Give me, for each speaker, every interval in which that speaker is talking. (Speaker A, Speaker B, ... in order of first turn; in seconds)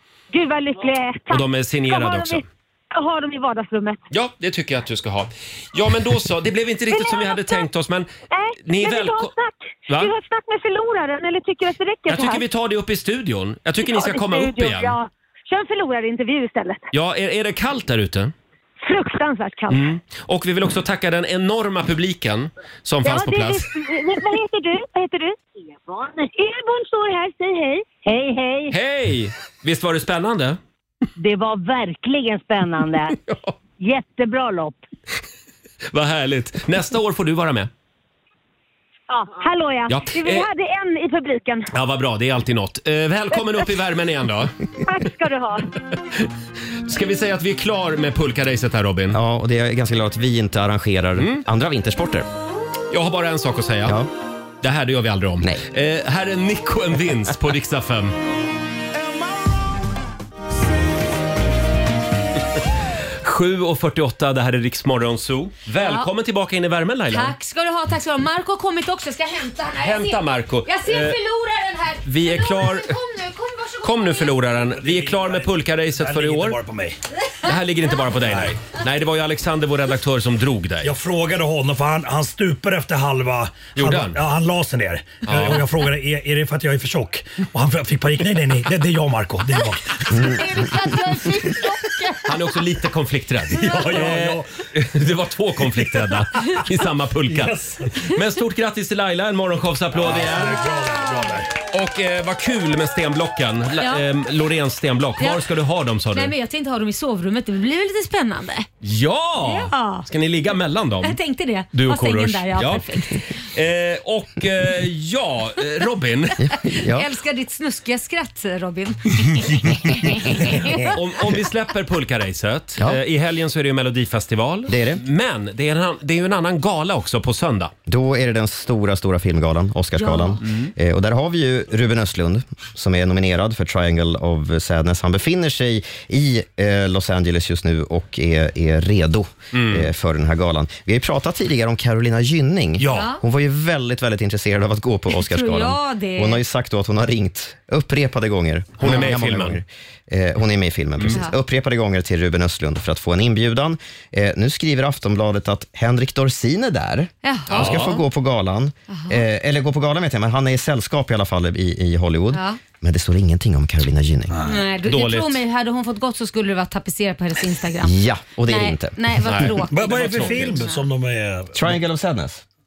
Speaker A: 0.3-4.0, 6.9-7.6, 8.3-12.4, 13.8-16.8, 18.8-19.9, 23.0-28.7, 31.2-33.1, 33.8-34.8, 39.1-41.7, 44.9-45.7
Speaker B: 1.3-2.4, 4.1-8.1, 8.6-9.3, 12.1-15.0, 16.9-18.3, 19.7-23.7, 28.7-30.6, 35.9-37.7, 39.9-40.5, 41.7-44.5, 46.9-49.2, 51.2-51.4, 52.9-54.0, 54.6-58.1, 63.2-67.3, 69.8-71.2, 72.0-72.9, 73.8-76.6, 77.4-80.9, 83.8-84.2, 85.2-85.6, 92.2-100.6, 101.7-106.3, 108.8-111.2, 111.7-116.4, 120.9-127.7, 139.5-139.9, 148.8-149.6, 157.5-158.0, 164.8-165.4, 169.2-170.5
Speaker C: 49.1-52.3, 116.4-117.1, 124.7-125.0, 127.9-164.3, 167.8-169.5, 171.5-172.4
Speaker D: 65.8-66.1, 67.1-74.3, 90.1-92.3, 100.7-101.3, 106.1-108.7, 109.4-110.0, 111.0-113.2, 116.8-120.8, 130.0-130.4, 142.9-143.2, 145.1-146.4, 157.2-157.9, 158.9-159.2, 162.3-162.6, 164.4-167.9, 168.5-170.8
Speaker E: 74.7-77.0, 78.1-78.5, 80.8-90.4, 93.5-94.5, 97.3-97.9, 99.9-101.5, 142.8-143.1, 169.7-171.8